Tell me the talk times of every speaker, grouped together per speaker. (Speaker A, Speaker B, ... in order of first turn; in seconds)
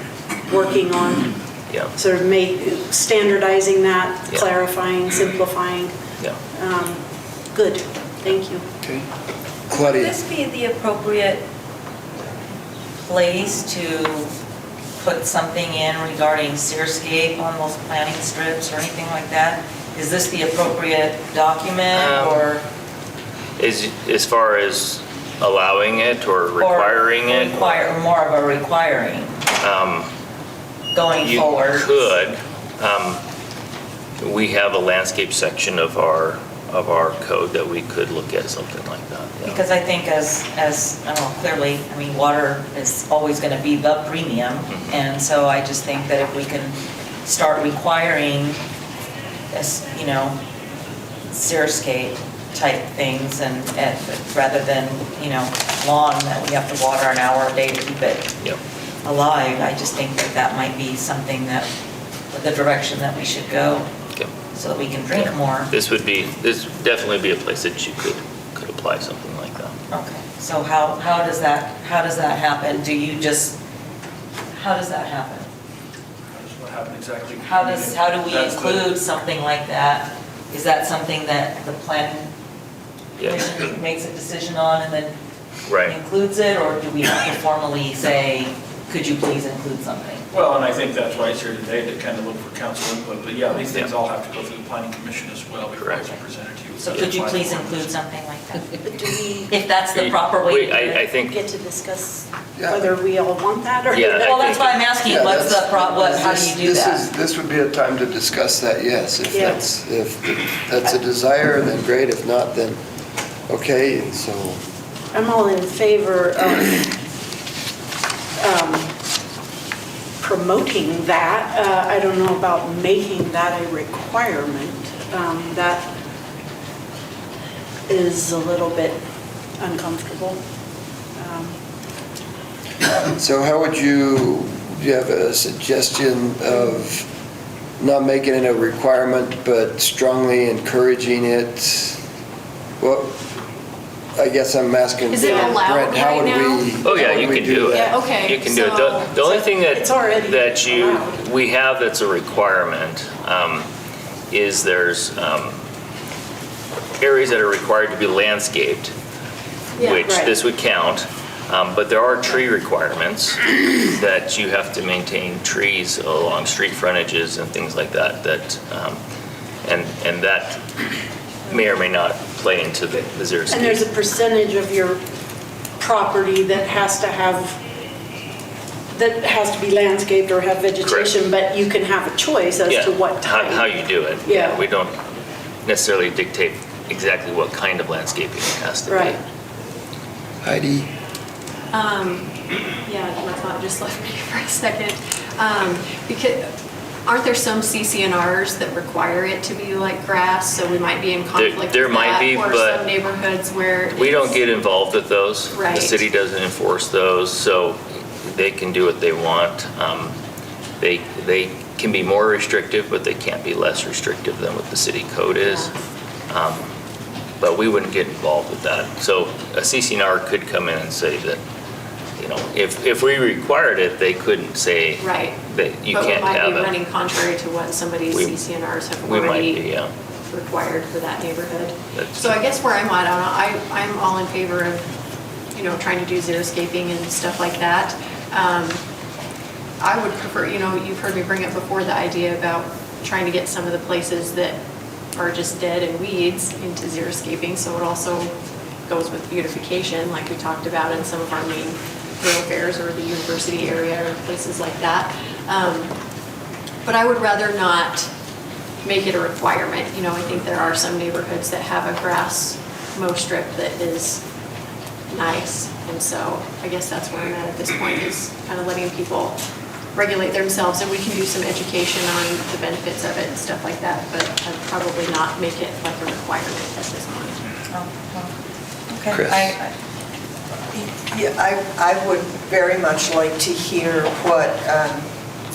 Speaker A: 0.5-1.4, 1.9-6.0, 6.5-8.6, 98.8-99.5, 101.2-104.7, 109.3-109.6, 115.1-117.0, 118.4-118.9, 120.2-125.9, 127.9-129.0, 129.6-130.4, 131.2-131.6, 145.2-145.6, 147.7-148.0, 149.2-151.2, 160.0-160.3, 173.5-175.0, 175.8-177.6, 178.9-183.7, 184.2-184.6, 188.9-189.2
Speaker B: 9.7-10.2, 102.6-102.9, 105.0-112.8, 113.5-114.6, 133.0-137.1, 137.8-142.0, 142.8-143.2, 144.2-147.9, 190.4-190.9, 279.1-279.6
Speaker C: 9.9-11.4, 13.0-14.3, 15.0-22.6, 26.6-29.4, 30.9-32.1, 39.5-48.6, 49.5-50.4, 51.3-58.3, 59.0-61.7, 62.3-63.9, 64.5-65.7, 69.9-73.6, 74.5-75.5, 77.4-82.3, 83.2-85.1, 85.8-90.2, 96.8-98.8, 99.5-101.0, 104.1-107.1, 277.7-278.3, 278.9-279.7
Speaker D: 21.9-22.5, 23.6-27.9, 29.6-30.1, 31.2-33.2, 34.2-39.6, 44.7-45.0, 65.1-69.8, 83.2-83.6, 85.7-86.0, 95.8-96.1, 100.0-101.4, 103.9-104.9, 146.8-153.7, 154.3-155.6, 157.0-158.9, 159.8-169.0, 169.7-170.6, 171.5-173.8, 180.8-181.1, 182.7-185.0, 185.7-189.2, 201.3-202.9, 203.9-210.2, 210.8-215.7, 216.3-216.7, 217.4-221.4, 222.2-226.8, 228.1-228.4, 229.0-229.9, 231.9-232.4
Speaker E: 76.3-78.9, 90.3-97.8
Speaker F: 145.1-146.9, 147.8-149.2, 191.7-192.3, 192.8-196.5, 197.1-204.4, 205.5-206.0, 215.4-215.7, 225.0-229.6, 230.3-234.9, 235.5-238.8, 239.8-244.6, 245.1-248.3, 248.9-255.9, 256.9-258.1, 258.8-264.2, 265.1-269.4, 269.9-277.4
Speaker G: 280.7-285.1